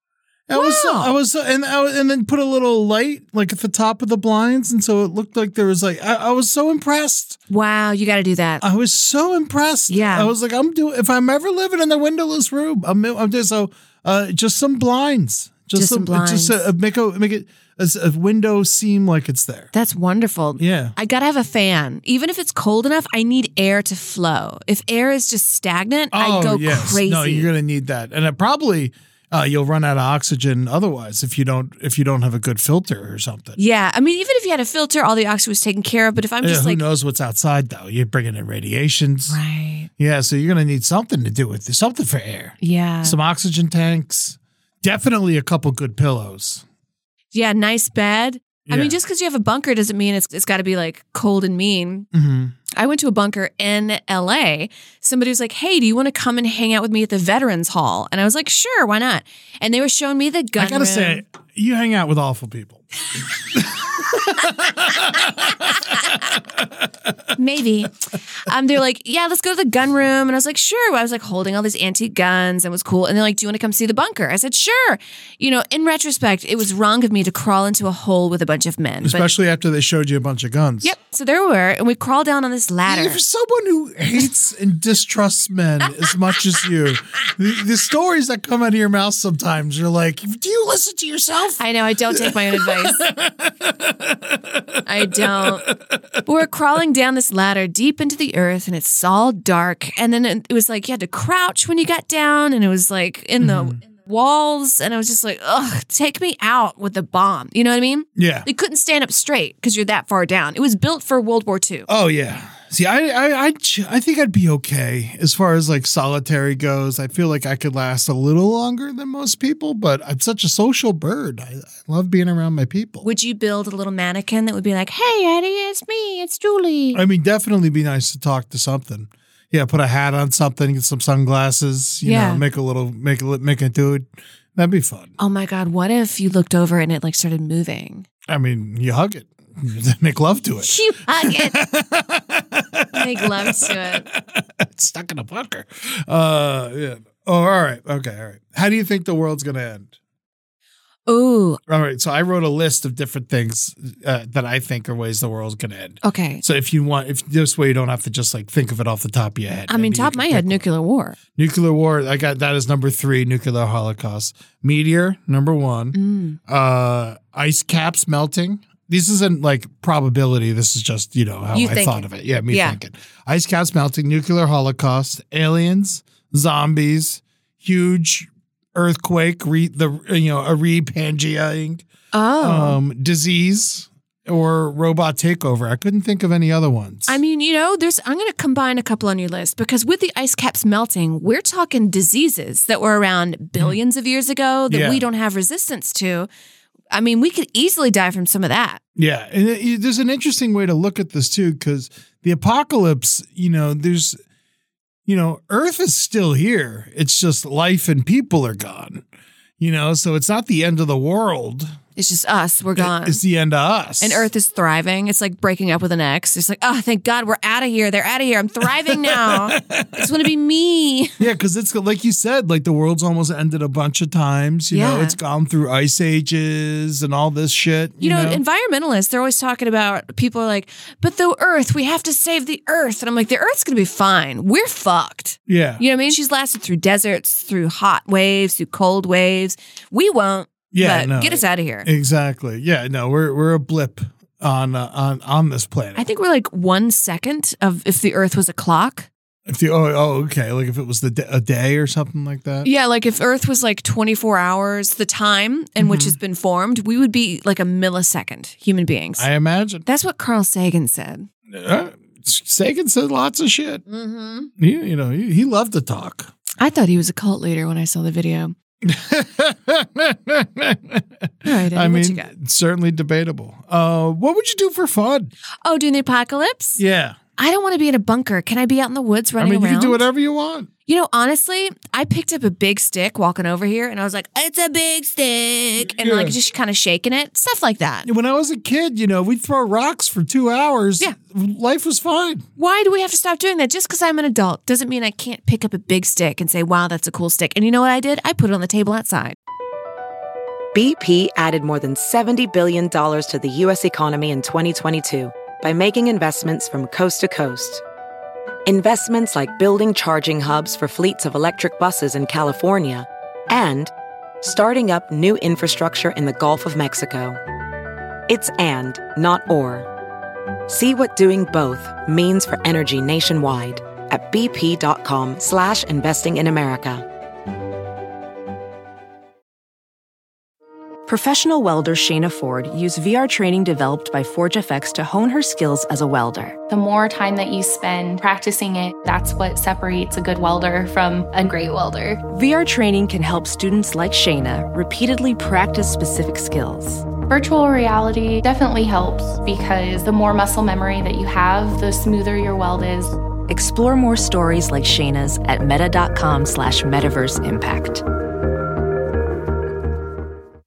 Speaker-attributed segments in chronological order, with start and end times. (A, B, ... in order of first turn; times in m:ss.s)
0:00.5-0:07.4 A
0:00.5-0:01.1 B
0:07.5-0:08.6 B
0:08.6-0:19.7 A
0:09.9-0:10.3 B
0:15.7-0:16.7 B
0:19.7-0:27.5 B
0:20.6-0:20.9 A
0:26.1-0:33.6 A
0:33.6-0:36.8 B
0:36.4-0:39.4 A
0:39.3-0:39.9 B
0:40.0-0:46.6 A
0:42.6-0:43.2 B
0:47.3-0:52.1 B
0:48.7-0:49.0 A
0:52.1-0:52.6 A
0:52.7-1:01.2 B
1:00.6-1:02.8 A
1:03.4-1:07.2 A
1:07.4-1:19.3 B
1:19.0-1:20.9 A
1:20.8-1:23.2 B
1:22.8-1:35.9 A
1:31.6-1:33.0 B
1:34.8-1:35.7 B
1:36.2-1:51.9 B
1:43.4-1:43.8 A
1:48.2-1:48.5 A
1:51.9-2:03.0 A
2:03.0-2:07.0 B
2:06.9-2:15.1 A
2:12.0-2:12.4 B
2:15.2-2:18.0 B
2:18.3-2:29.9 A
2:20.6-2:21.6 B
2:22.9-2:24.1 B
2:31.0-2:31.6 B
2:31.7-2:40.7 A
2:36.0-2:36.4 B
2:39.7-2:41.2 B
2:41.3-3:01.8 A
2:45.9-2:46.4 B
2:51.5-2:52.8 B
3:02.1-3:02.8 B
3:02.4-3:07.2 A
3:07.1-3:16.3 B
3:14.7-3:15.0 A
3:16.9-3:18.8 B
3:19.0-3:24.2 A
3:25.0-3:29.0 A
3:29.6-3:31.8 A
3:32.0-3:33.2 B
3:32.8-3:34.3 A
3:34.0-3:41.2 B
3:38.6-3:40.2 A
3:41.2-3:48.4 A
3:44.7-3:45.2 B
3:48.0-4:01.9 B
3:55.5-3:55.8 A
4:00.7-4:06.0 A
4:06.0-4:09.1 B
4:09.5-4:12.7 A
4:12.6-4:19.3 B
4:15.8-4:16.2 A
4:19.2-4:19.8 A
4:19.8-4:21.3 B
4:21.5-4:23.8 A
4:23.8-4:24.5 B
4:24.6-4:26.3 A
4:26.6-4:28.5 B
4:28.8-4:35.3 A
4:31.4-4:32.3 B
4:35.6-4:36.8 B
4:36.8-4:37.2 A
4:37.4-4:40.0 B
4:39.4-4:40.7 A
4:40.9-4:48.1 B
4:45.8-4:46.4 A
4:48.0-4:52.4 A
4:52.6-4:59.4 B
5:00.7-5:07.8 C
5:08.6-5:17.4 C
5:18.3-5:19.9 C
5:20.7-5:27.0 C
5:31.1-5:36.6 D
5:36.7-5:42.2 E
5:42.3-5:47.0 D
5:47.3-5:53.2 E
5:53.5-5:58.0 D